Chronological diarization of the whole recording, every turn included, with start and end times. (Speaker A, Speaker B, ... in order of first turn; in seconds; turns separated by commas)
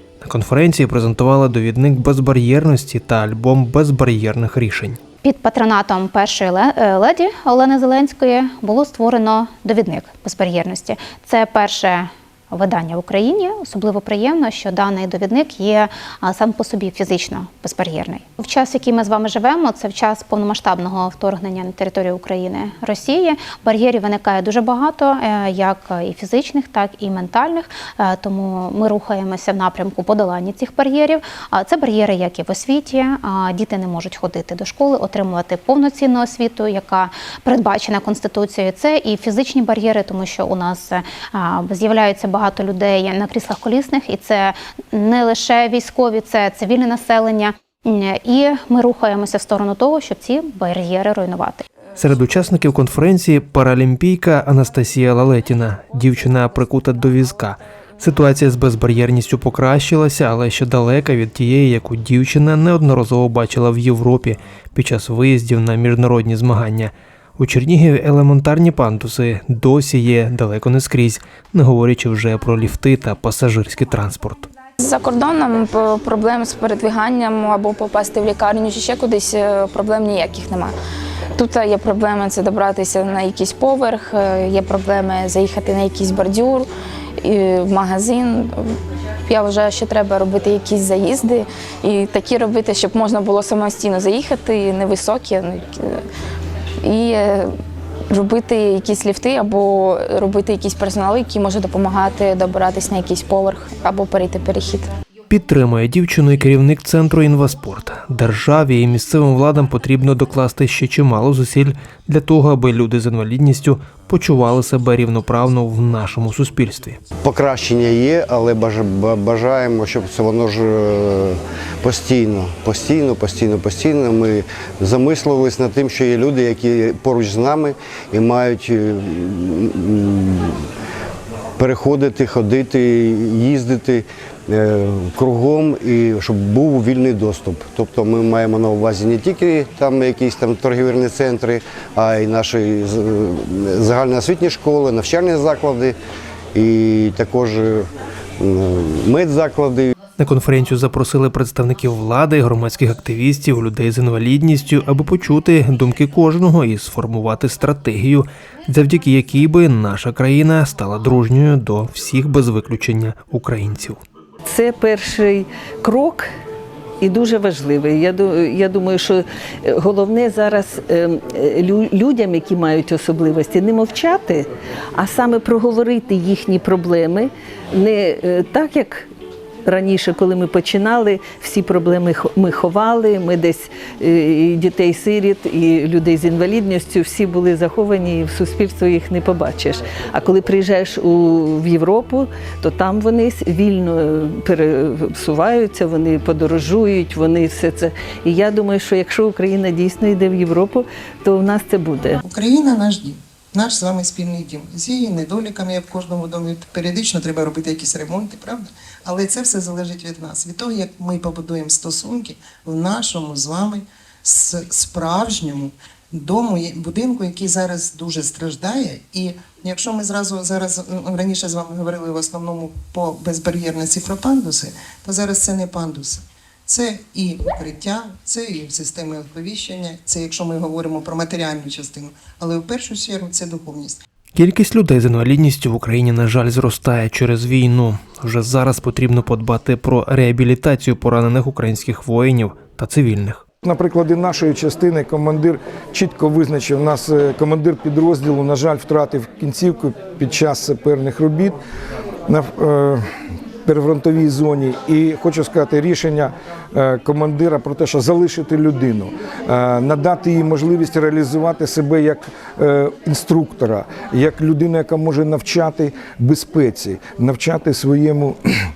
Speaker A: 0.2-5.0, Speaker B: 5.2-51.7, Speaker A: 52.0-74.5, Speaker C: 74.8-80.8, Speaker C: 81.4-86.7, Speaker C: 87.2-96.0, Speaker C: 96.8-97.5, Speaker C: 98.1-104.9, Speaker A: 105.3-117.0, Speaker D: 117.2-130.6, Speaker D: 131.6-146.0, Speaker D: 146.5-147.9, Speaker D: 148.4-149.9, Speaker A: 150.2-164.0, Speaker E: 164.4-166.3, Speaker E: 167.0-179.1, Speaker E: 179.7-202.2, Speaker F: 202.2-234.0, Speaker A: 234.3-243.4, Speaker G: 243.6-251.6, Speaker G: 252.3-253.0, Speaker G: 253.7-268.4